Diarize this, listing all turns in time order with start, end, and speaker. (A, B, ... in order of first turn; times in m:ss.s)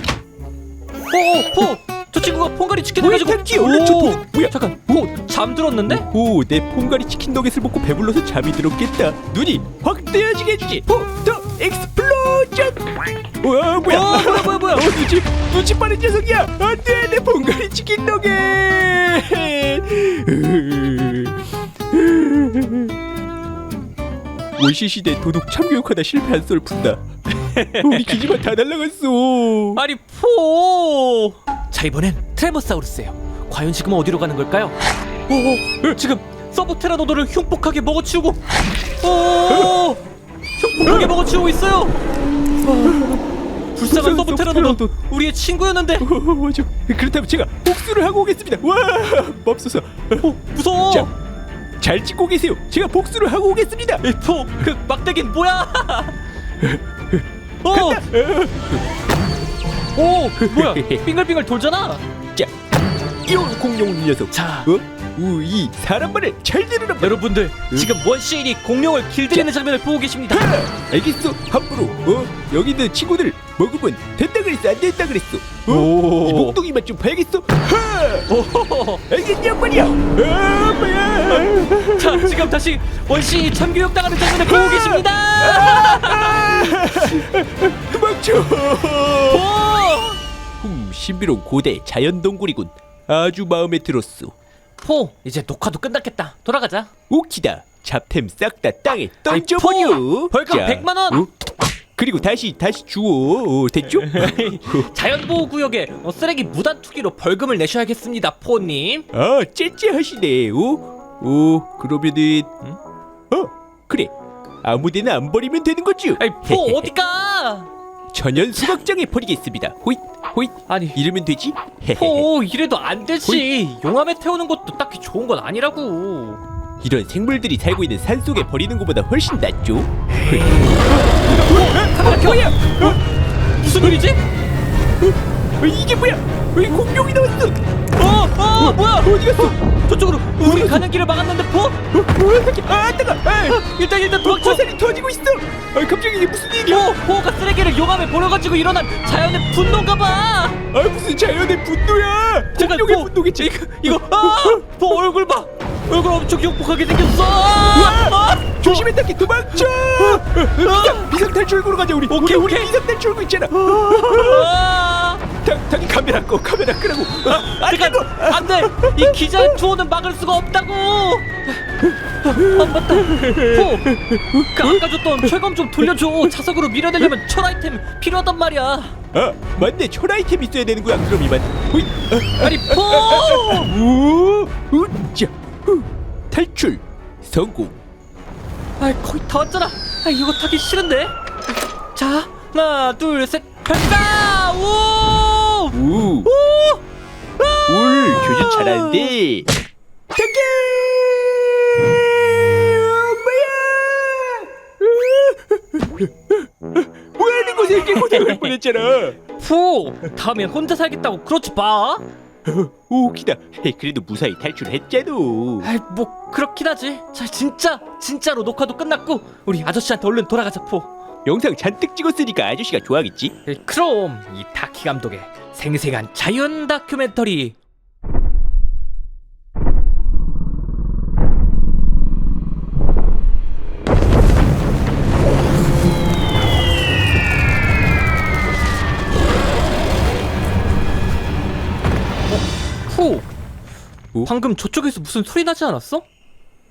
0:01.1-0:06.1 A
0:03.0-0:05.0 B
0:05.9-0:23.0 B
0:13.8-0:15.0 A
0:24.6-0:27.0 B
0:27.3-0:28.2 A
0:27.8-0:29.8 B
0:29.8-0:40.0 A
0:39.5-0:39.9 B
0:40.6-0:42.0 A
0:40.8-0:41.1 B
0:42.6-0:43.1 A
0:42.8-0:43.2 B
0:43.7-0:46.1 A
0:43.9-0:44.9 B
0:46.0-0:50.3 B
0:50.2-0:51.1 A
0:51.8-0:54.0 B
0:54.0-0:56.2 A
0:56.6-0:58.8 B
0:57.6-0:58.1 A
0:59.9-1:02.0 A
1:00.4-1:01.0 B
1:03.2-1:07.9 B
1:04.3-1:04.7 A
1:07.0-1:10.6 A
1:10.3-1:18.4 B
1:15.6-1:16.6 A
1:18.3-1:19.0 A
1:19.1-1:22.5 B
1:21.3-1:27.2 A
1:24.3-1:29.5 B
1:29.3-1:30.2 A
1:30.6-1:34.3 B
1:34.8-1:36.9 A
1:37.1-1:41.3 B
1:39.3-1:41.2 A
1:42.0-1:44.9 B
1:43.9-1:49.0 A
1:49.1-1:52.5 B
1:53.3-1:56.9 B
1:56.2-1:57.7 A
1:58.1-2:02.3 B
2:00.7-2:01.0 A
2:01.9-2:06.4 A
2:06.8-2:13.0 B
2:10.1-2:13.0 A
2:13.6-2:14.2 A
2:15.0-2:17.6 B
2:18.0-2:21.8 A
2:18.6-2:19.6 B
2:20.4-2:20.8 B
2:21.9-2:27.0 B
2:23.4-2:24.6 A
2:26.7-2:30.6 A
2:30.7-2:34.9 B
2:32.5-2:38.9 A
2:37.6-2:44.5 B
2:39.5-2:41.1 A
2:42.1-2:42.7 A
2:43.6-2:45.2 A
2:45.4-2:49.6 B
2:47.2-2:51.6 A
2:52.2-2:59.0 A
2:52.3-2:55.9 B
2:59.1-3:07.8 B
3:02.4-3:03.7 A
3:08.8-3:11.2 A
3:11.9-3:16.8 A
3:15.7-3:16.3 B
3:17.4-3:19.1 A
3:17.7-3:19.5 B
3:20.1-3:29.2 B
3:27.9-3:28.5 A
3:29.4-3:32.0 A
3:32.4-3:35.7 B
3:35.6-3:40.9 A
3:41.2-3:43.3 B
3:43.4-3:47.6 A
4:02.3-4:03.3 A
4:04.2-4:06.0 A